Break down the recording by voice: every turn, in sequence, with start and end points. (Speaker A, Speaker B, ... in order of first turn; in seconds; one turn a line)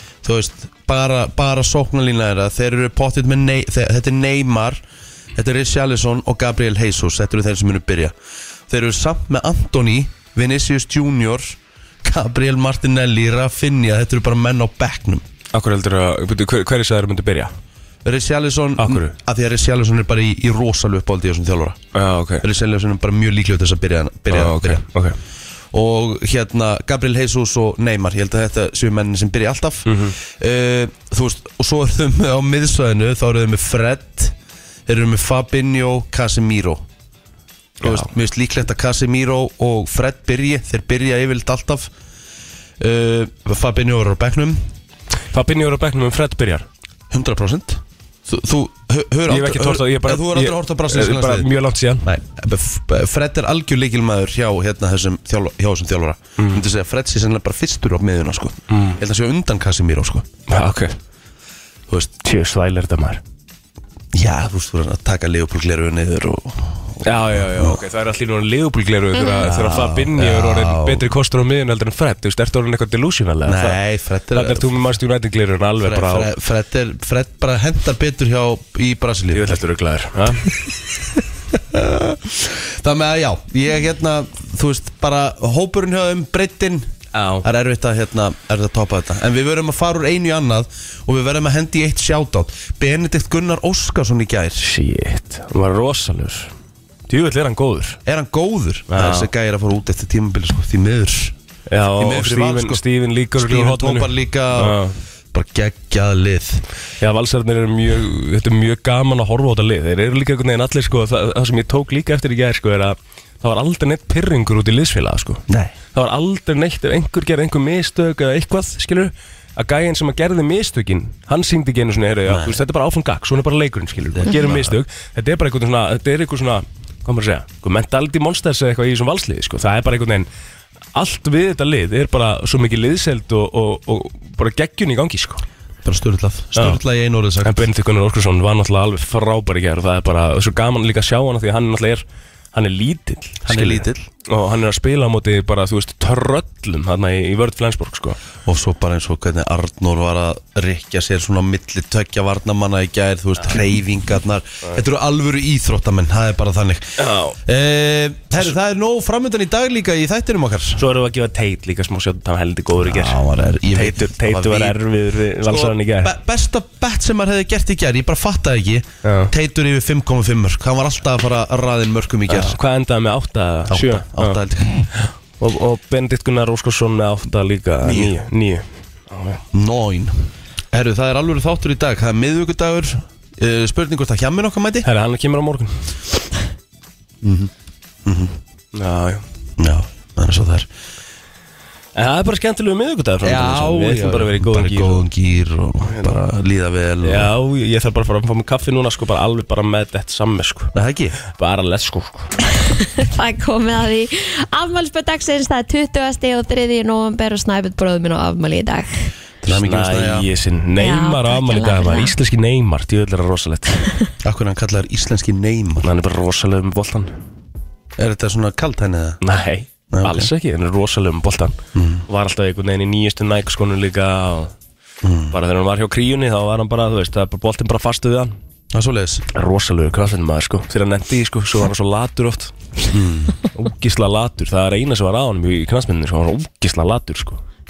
Speaker A: 0.2-4.8
Speaker A: 5.3-8.1
Speaker A: 8.7-15.2
Speaker B: 15.5-17.5
Speaker A: 18.0-21.8
Speaker B: 18.8-19.1
Speaker B: 21.9-22.4
Speaker A: 22.4-24.8
Speaker B: 24.3-25.2
Speaker A: 25.7-34.3
Speaker B: 29.9-30.2
Speaker A: 34.9-36.8
Speaker A: 37.8-41.9
Speaker B: 37.8-38.1
Speaker A: 42.8-44.6
Speaker B: 45.3-46.6
Speaker A: 47.1-51.5
Speaker B: 49.3-52.0
Speaker A: 52.0-60.3
Speaker B: 56.4-56.6
Speaker B: 58.7-59.0
Speaker B: 60.5-61.0
Speaker A: 61.9-62.1
Speaker B: 62.2-63.2
Speaker A: 64.1-67.8
Speaker B: 67.0-73.8
Speaker A: 69.4-71.0
Speaker A: 73.5-74.7
Speaker B: 74.3-76.3
Speaker A: 75.8-79.6
Speaker B: 79.3-80.5
Speaker A: 81.5-86.9
Speaker B: 87.1-87.5
Speaker A: 87.4-94.7
Speaker B: 94.6-96.5
Speaker B: 97.1-98.0
Speaker A: 98.0-101.3
Speaker B: 98.9-99.3
Speaker B: 101.7-105.0
Speaker A: 102.0-102.8
Speaker A: 103.3-104.8
Speaker A: 105.3-106.6
Speaker B: 107.0-130.3
Speaker A: 115.5-115.8
Speaker A: 122.3-122.6
Speaker A: 124.1-124.8
Speaker B: 130.9-135.4
Speaker A: 135.8-137.7
Speaker B: 137.4-148.2
Speaker A: 143.4-144.1
Speaker A: 148.4-160.8
Speaker B: 157.0-157.3
Speaker B: 160.8-163.2
Speaker A: 162.8-164.8
Speaker B: 163.7-166.1
Speaker A: 165.4-172.6
Speaker B: 169.0-169.3
Speaker B: 172.3-174.4
Speaker A: 173.7-174.9
Speaker B: 174.9-179.4
Speaker A: 177.8-178.1
Speaker A: 179.5-184.9
Speaker B: 184.8-185.9
Speaker A: 187.2-187.5
Speaker A: 188.0-188.4
Speaker B: 188.7-189.2
Speaker A: 189.6-190.7
Speaker B: 191.9-195.0
Speaker A: 193.2-197.3
Speaker B: 195.9-196.2
Speaker B: 197.0-200.7
Speaker A: 200.7-201.2
Speaker B: 201.3-202.3
Speaker C: 202.6-209.1
Speaker A: 209.4-210.3
Speaker B: 209.5-213.9
Speaker C: 210.8-212.1
Speaker A: 214.2-215.9
Speaker B: 215.8-217.1
Speaker A: 218.0-219.2
Speaker B: 219.2-221.6
Speaker A: 219.9-220.3
Speaker A: 221.7-222.0
Speaker B: 222.1-224.5
Speaker A: 225.0-225.3
Speaker B: 225.3-228.3
Speaker A: 228.7-229.2
Speaker B: 229.3-232.5
Speaker A: 232.9-233.4
Speaker B: 233.5-237.4